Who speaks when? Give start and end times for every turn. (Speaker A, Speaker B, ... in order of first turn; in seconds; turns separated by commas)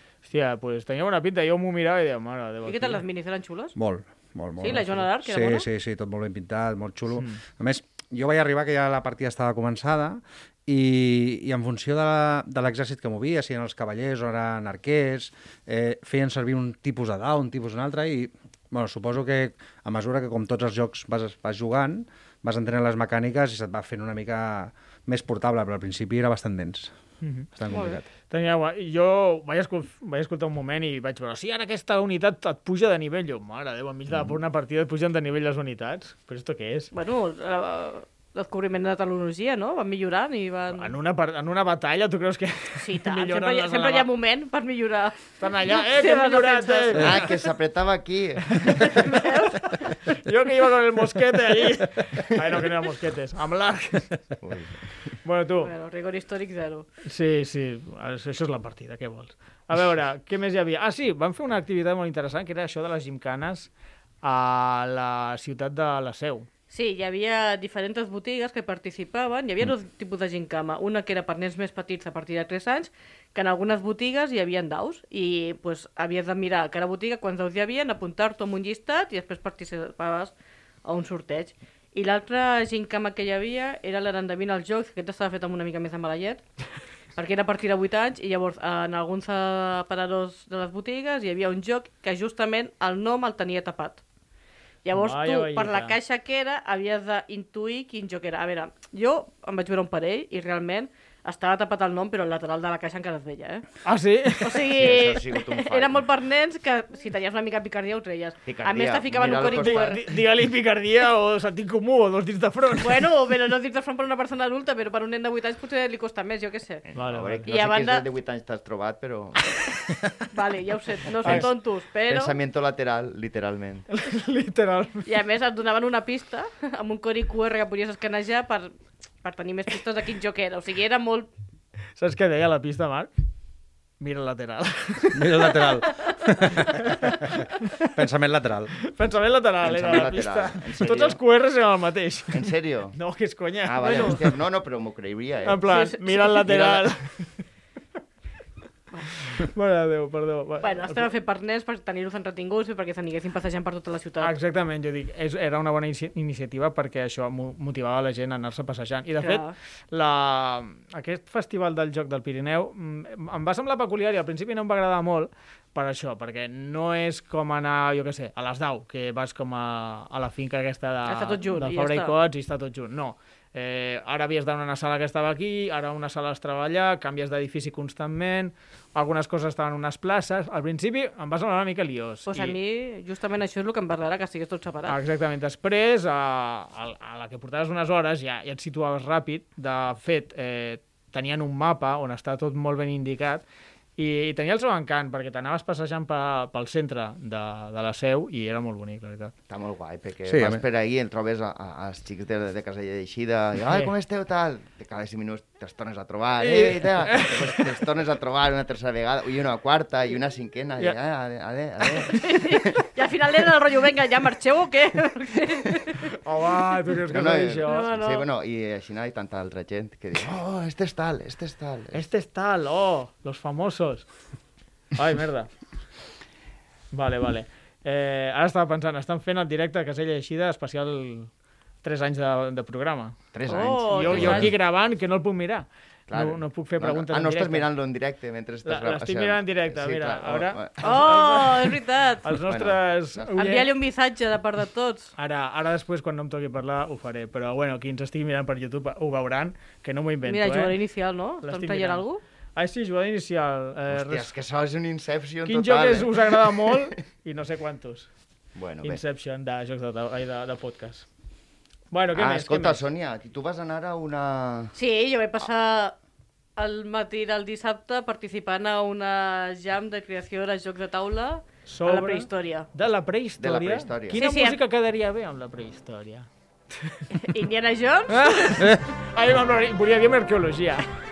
Speaker A: 0.2-3.0, Speaker B: 2.6-3.8, Speaker C: 3.8-26.9, Speaker B: 4.6-5.7, Speaker A: 27.2-27.5, Speaker C: 27.5-28.1, Speaker B: 27.7-28.0, Speaker A: 28.3-36.9, Speaker B: 36.9-40.9, Speaker A: 40.7-44.1, Speaker B: 42.8-47.2, Speaker A: 45.4-47.3, Speaker D: 47.0-49.1, Speaker A: 48.6-49.1, Speaker B: 48.9-49.9, Speaker A: 50.0-54.2, Speaker D: 54.4-54.8, Speaker A: 55.2-55.7, Speaker B: 55.6-56.9, Speaker A: 57.0-63.7, Speaker A: 64.2-66.5, Speaker B: 66.7-80.3, Speaker B: 80.8-86.4, Speaker B: 87.2-94.0, Speaker B: 94.8-103.7, Speaker A: 94.9-95.9, Speaker A: 103.8-104.7, Speaker B: 104.4-110.0, Speaker D: 104.7-106.0, Speaker D: 108.5-110.0, Speaker A: 109.2-113.0, Speaker B: 112.8-116.8, Speaker D: 116.8-119.7, Speaker A: 116.9-117.5, Speaker B: 117.5-118.0, Speaker B: 120.3-122.3, Speaker D: 121.2-121.6, Speaker D: 122.1-123.8, Speaker A: 123.9-125.1, Speaker B: 125.0-128.7, Speaker B: 129.2-131.3, Speaker A: 132.0-133.1, Speaker A: 134.0-135.8, Speaker C: 135.1-137.4, Speaker C: 137.9-138.8, Speaker A: 138.9-144.3, Speaker D: 139.6-141.2, Speaker D: 142.3-142.9, Speaker D: 143.6-145.6, Speaker A: 145.4-147.4, Speaker B: 145.6-146.4, Speaker D: 146.4-146.9, Speaker A: 149.2-151.1, Speaker B: 150.6-154.3, Speaker A: 154.2-182.6, Speaker B: 159.2-159.5, Speaker B: 171.1-172.1, Speaker B: 182.3-185.0, Speaker A: 184.9-193.4, Speaker A: 194.0-199.3, Speaker D: 199.5-212.8, Speaker C: 200.2-200.6, Speaker A: 206.4-207.7, Speaker B: 212.1-216.0, Speaker A: 216.1-217.9, Speaker D: 217.1-222.0, Speaker B: 217.6-218.2, Speaker A: 221.9-224.1, Speaker A: 224.9-225.5, Speaker A: 226.9-231.3, Speaker A: 231.8-233.3, Speaker D: 233.3-234.5, Speaker B: 233.5-234.5, Speaker A: 233.9-237.7, Speaker D: 236.1-241.1, Speaker A: 238.6-243.7, Speaker B: 240.8-242.2, Speaker D: 242.4-243.3, Speaker B: 243.3-245.1, Speaker A: 245.2-250.8, Speaker B: 250.2-252.2, Speaker A: 251.4-254.3, Speaker D: 253.9-256.9, Speaker A: 255.4-258.1, Speaker D: 258.5-259.0, Speaker A: 258.8-261.1, Speaker A: 261.9-262.8, Speaker D: 262.1-264.7, Speaker B: 264.7-265.9, Speaker B: 266.6-272.7, Speaker A: 271.7-276.3, Speaker D: 273.4-274.2, Speaker B: 274.1-274.6, Speaker B: 277.1-278.6, Speaker A: 278.1-280.9